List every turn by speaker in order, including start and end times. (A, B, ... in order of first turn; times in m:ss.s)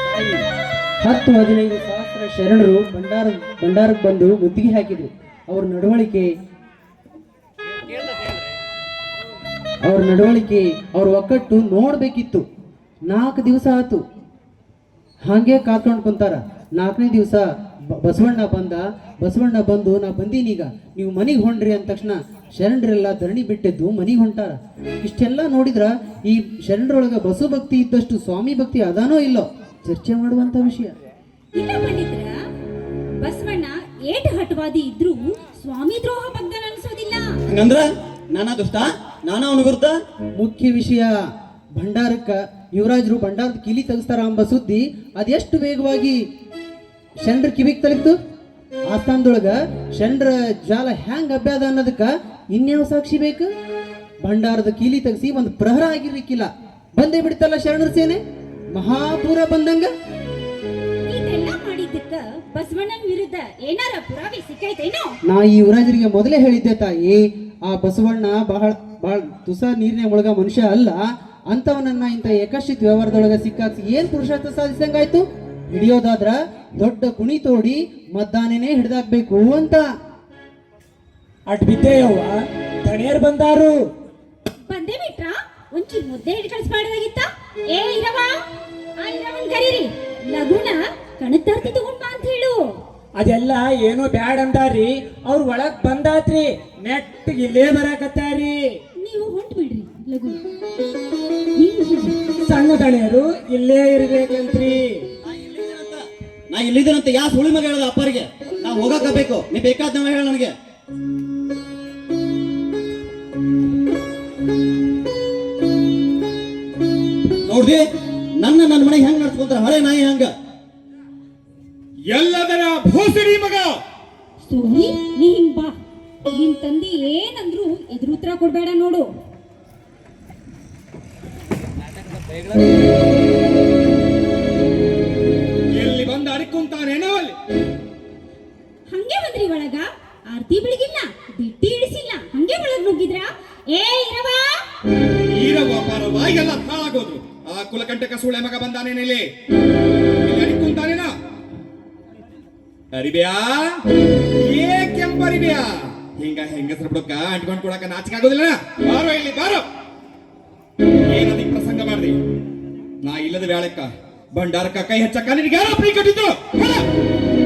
0:01.0-0:06.3 A
0:09.8-0:12.4 A
0:13.1-0:14.0 A
0:15.2-0:31.0 A
0:31.5-0:32.3 B
0:33.2-0:37.3 B
0:37.5-0:40.0 C
0:40.4-0:41.1 A
0:41.7-0:46.2 A
0:47.2-0:48.2 A
0:48.9-0:53.5 A
0:54.2-0:58.2 A
0:58.7-0:59.9 A
1:01.1-1:05.2 B
1:05.2-1:19.9 A
1:21.5-1:23.8 D
1:24.7-1:28.3 B
1:29.0-1:32.6 B
1:33.2-1:38.8 D
1:39.0-1:40.4 B
1:41.6-1:42.2 B
1:42.4-1:45.0 D
1:45.3-1:50.5 C
1:57.5-1:57.8 C
1:58.4-2:00.3 C
2:02.1-2:03.8 E
2:04.4-2:05.8 B
2:06.3-2:09.1 B
2:15.8-2:17.4 E
2:18.9-2:24.6 B
2:25.3-2:29.3 E
2:30.2-2:31.1 E
2:32.9-2:33.8 E
2:34.4-2:39.6 E
2:41.1-2:42.2 E
2:43.0-2:46.9 E